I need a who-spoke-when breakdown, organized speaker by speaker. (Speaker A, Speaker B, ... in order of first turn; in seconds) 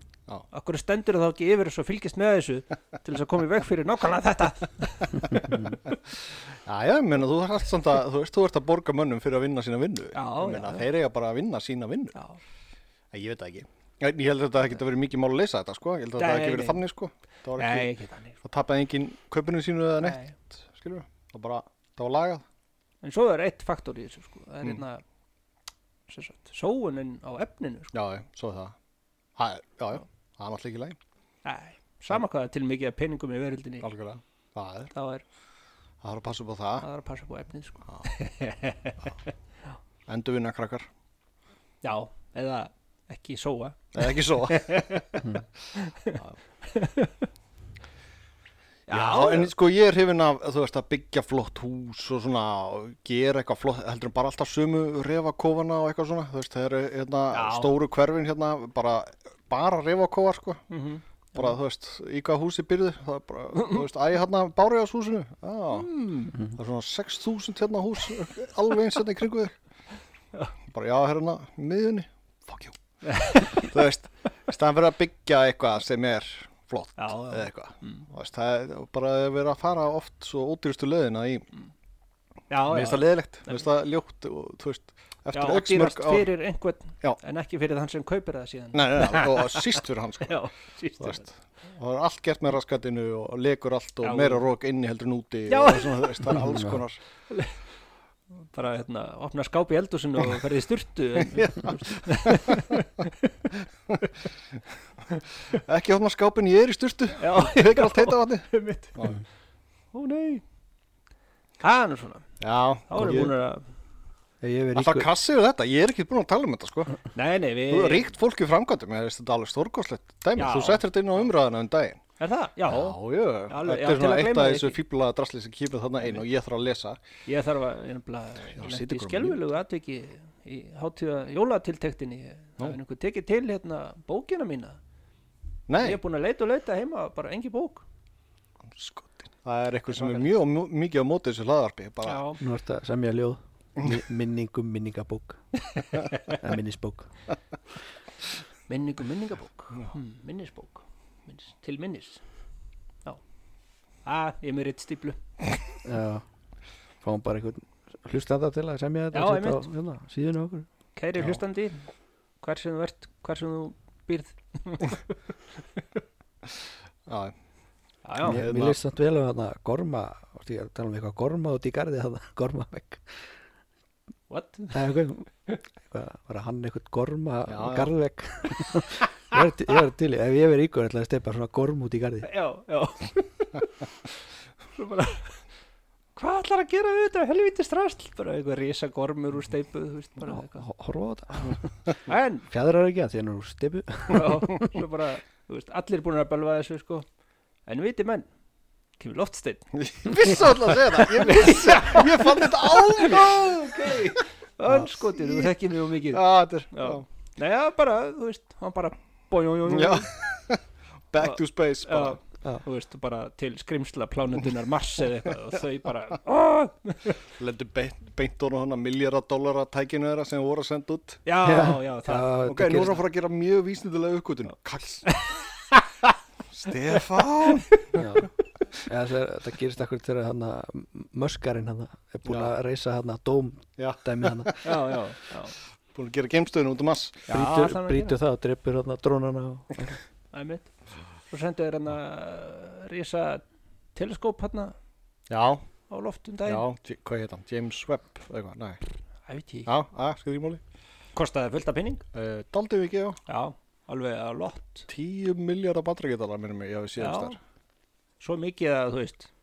Speaker A: 0.5-5.5, 10.1-10.8, 16.2-16.8, 17.6-18.4, 20.0-20.3, 23.0-25.0, 26.1-27.9, 31.4-33.9, 34.9-35.2, 36.8-39.1, 41.8-47.1, 48.9-49.5, 57.3-57.7, 60.7-61.5, 63.5-63.8, 65.7-66.4, 73.0-73.7, 77.0-78.0, 82.5-83.6, 85.3-91.2, 94.0-94.4, 95.5-96.4, 97.3-97.5, 98.5-103.3, 107.2-109.2, 109.9-110.4, 111.6-112.2, 112.9-113.6, 117.1-118.1, 120.3-121.3, 122.2-123.0, 123.5-124.8, 127.3-134.8, 135.8-137.8, 139.9-140.3, 142.0-142.4, 145.7-146.3, 148.7-152.2, 154.0-155.2, 159.1-159.7, 160.9-161.9, 162.4-165.1, 168.0-168.4, 174.3-174.8, 182.2-183.8, 184.7-185.4, 186.2-190.6, 192.1-192.5, 194.1-197.1, 197.7-198.3, 199.0-210.1, 211.2-217.2, 221.2-222.7, 225.1-226.1, 234.6-235.5, 237.3-238.2, 240.3-240.7, 241.3-243.4, 243.9-244.7, 245.9-246.6, 249.3-249.7, 251.1-252.0, 253.3-254.9, 257.0-257.4, 258.2-259.3
Speaker B: 5.5-5.8, 96.3-96.8, 114.4-115.1, 142.4-145.4, 146.3-147.1, 155.8-156.2, 157.0-160.7, 168.2-173.2, 174.7-175.3, 175.8-182.3, 190.3-191.7, 192.5-194.8, 221.4-223.0, 227.9-228.3, 228.8-234.5, 237.3-240.0
Speaker C: 6.6-12.2, 13.1-22.4, 27.9-28.7, 29.4-31.0, 33.8-34.9, 36.0-36.9, 40.1-40.9, 43.9-45.0, 48.9-60.6, 61.3-69.5, 70.7-72.7, 73.3-81.5, 82.7-86.3, 88.7-90.4, 91.0-97.0, 101.3-102.6, 105.5-109.2, 112.4-113.3, 114.7-117.0, 117.7-122.0, 122.7-127.0, 128.5-129.4, 135.7-136.0, 138.7-142.2, 167.1-167.3, 168.2-168.8, 177.5-177.9, 199.8-204.2, 205.2-205.5, 206.1-207.0, 209.7-212.2, 217.4-221.2, 222.4-225.3, 226.5-228.2, 232.2-232.5, 233.8-234.7, 235.9-237.3, 245.3-245.6, 246.4-248.8, 249.7-250.6, 252.1-253.2, 254.9-257.4